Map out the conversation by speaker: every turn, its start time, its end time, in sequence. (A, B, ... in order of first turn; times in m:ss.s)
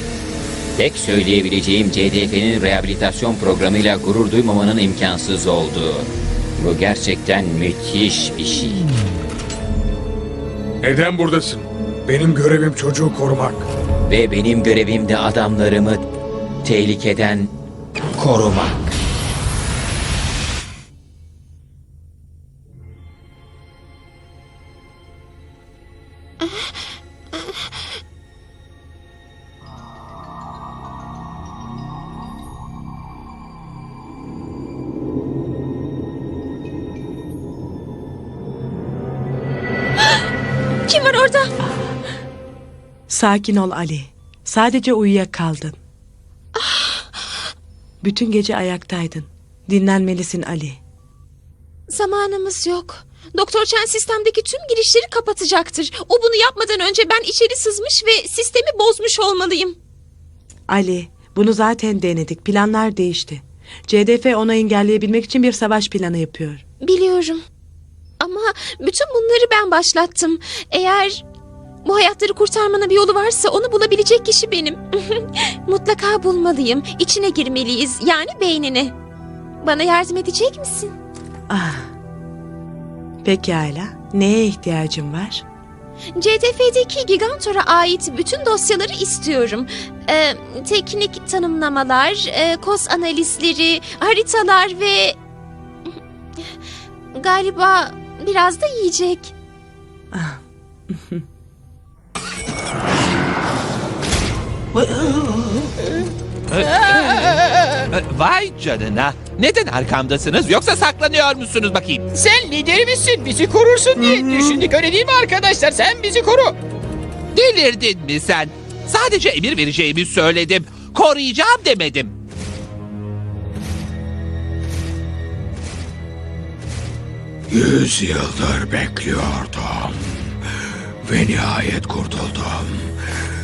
0:00.8-0:08.9 A
0:10.8-0:13.7 B
0:14.1-0:16.1 A
0:16.6-0:17.5 A
0:18.2-0:18.9 A
0:40.9-0:41.5 C
0:43.1-0:45.8 D
0:46.6-0:47.2 C
0:48.0-0:50.8 D
0:51.9-0:59.8 C
1:00.7-1:06.6 D
1:06.8-1:07.4 C
1:08.2-1:11.2 C
1:11.8-1:18.9 C
1:19.6-1:20.9 C
1:21.5-1:21.9 D
1:23.2-1:25.4 D
1:26.2-1:35.2 C
1:37.1-1:39.3 C
1:40.1-1:41.2 D
1:46.5-1:47.3 E
1:46.6-1:47.9 F
1:47.9-1:52.0 E
1:52.1-1:56.6 F
1:57.3-2:02.1 E
2:07.5-2:10.4 G
2:11.0-2:13.1 G